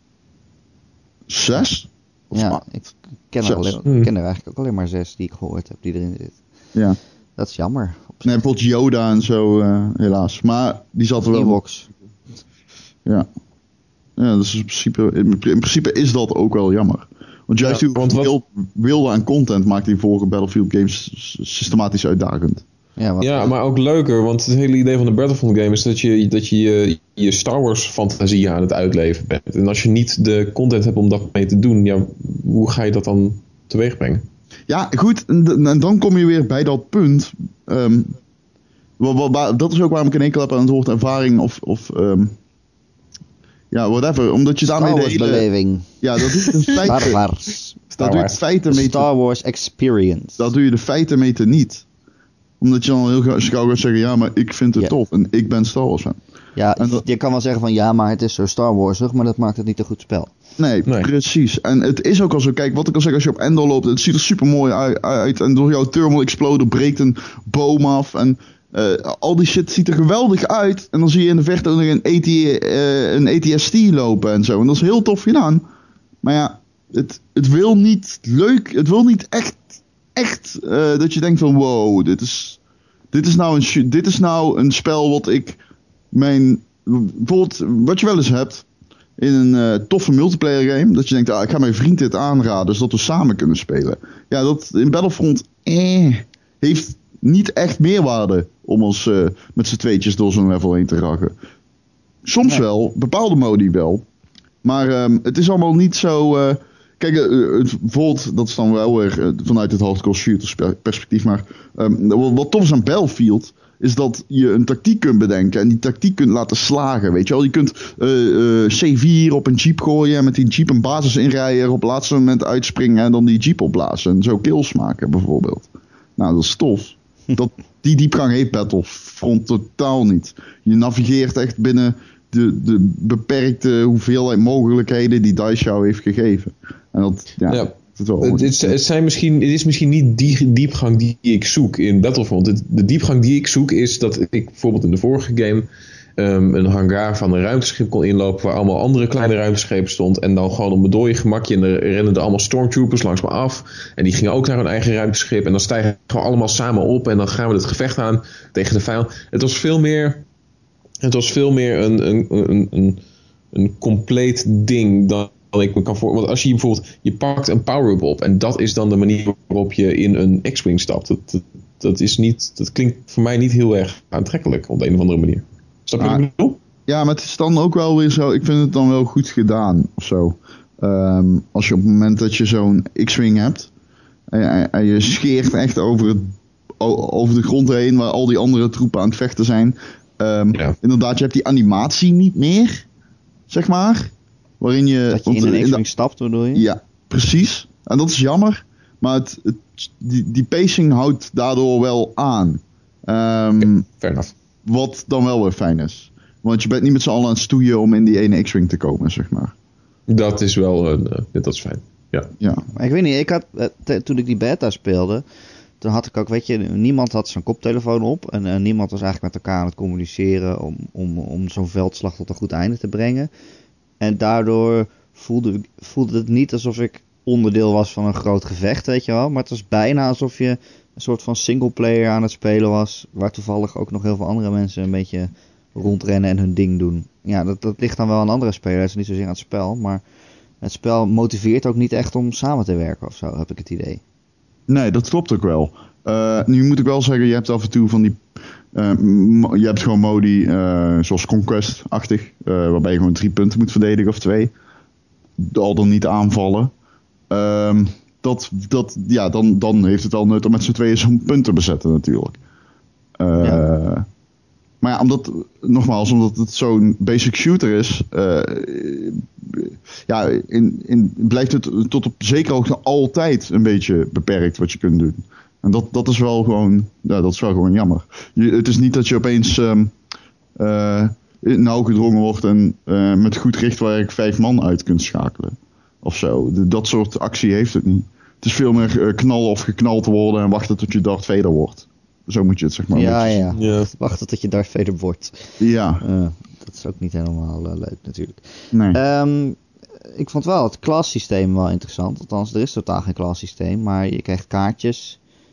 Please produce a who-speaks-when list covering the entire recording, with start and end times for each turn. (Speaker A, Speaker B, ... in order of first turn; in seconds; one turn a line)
Speaker A: 1.3-2.6
Speaker B: 2.3-6.4
Speaker A: 3.4-3.8
Speaker B: 7.4-8.4
Speaker A: 8.2-11.6
Speaker B: 11.3-11.9
Speaker A: 14.2-22.6
Speaker C: 17.6-18.4
Speaker B: 23.0-23.4
Speaker C: 23.2-34.2
Speaker A: 34.7-38.2
Speaker A: 39.0-42.3
Speaker A: 43.7-45.5
Speaker B: 44.6-45.9
Speaker A: 46.0-47.2
Speaker C: 46.4-46.8
Speaker B: 46.9-47.8
Speaker A: 47.9-49.1
Speaker C: 48.0-48.4
Speaker B: 48.7-50.5
Speaker A: 50.4-51.8
Speaker A: 52.6-56.2
Speaker B: 56.5-60.3
Speaker A: 56.8-57.0
Speaker A: 60.6-75.6
Speaker A: 76.2-82.6
Speaker A: 83.1-85.6
Speaker A: 86.1-88.7
Speaker A: 89.2-101.3
Speaker A: 102.2-104.0
Speaker A: 104.6-138.8
Speaker C: 137.5-145.7
Speaker C: 146.2-160.2
Speaker C: 161.0-163.0
Speaker C: 163.5-176.6
Speaker A: 176.0-176.2
Speaker A: 176.8-183.7
Speaker A: 184.3-192.8
Speaker A: 193.5-195.8
Speaker B: 195.1-196.7
Speaker A: 196.5-203.8
Speaker C: 203.6-204.3
Speaker A: 204.7-209.5
Speaker C: 210.1-212.3
Speaker A: 212.4-212.7
Speaker B: 212.7-215.2
Speaker B: 215.8-223.3
Speaker B: 224.0-240.0
Speaker B: 240.6-244.0
Speaker A: 244.7-254.5
Speaker A: 255.4-256.7
Speaker A: 257.3-262.4
Speaker A: 263.2-264.1
Speaker A: 264.8-279.9
Speaker A: 280.6-293.4
Speaker B: 292.9-299.6
Speaker C: 293.6-293.9
Speaker A: 295.6-296.0
Speaker A: 298.7-299.0
Speaker B: 300.1-305.2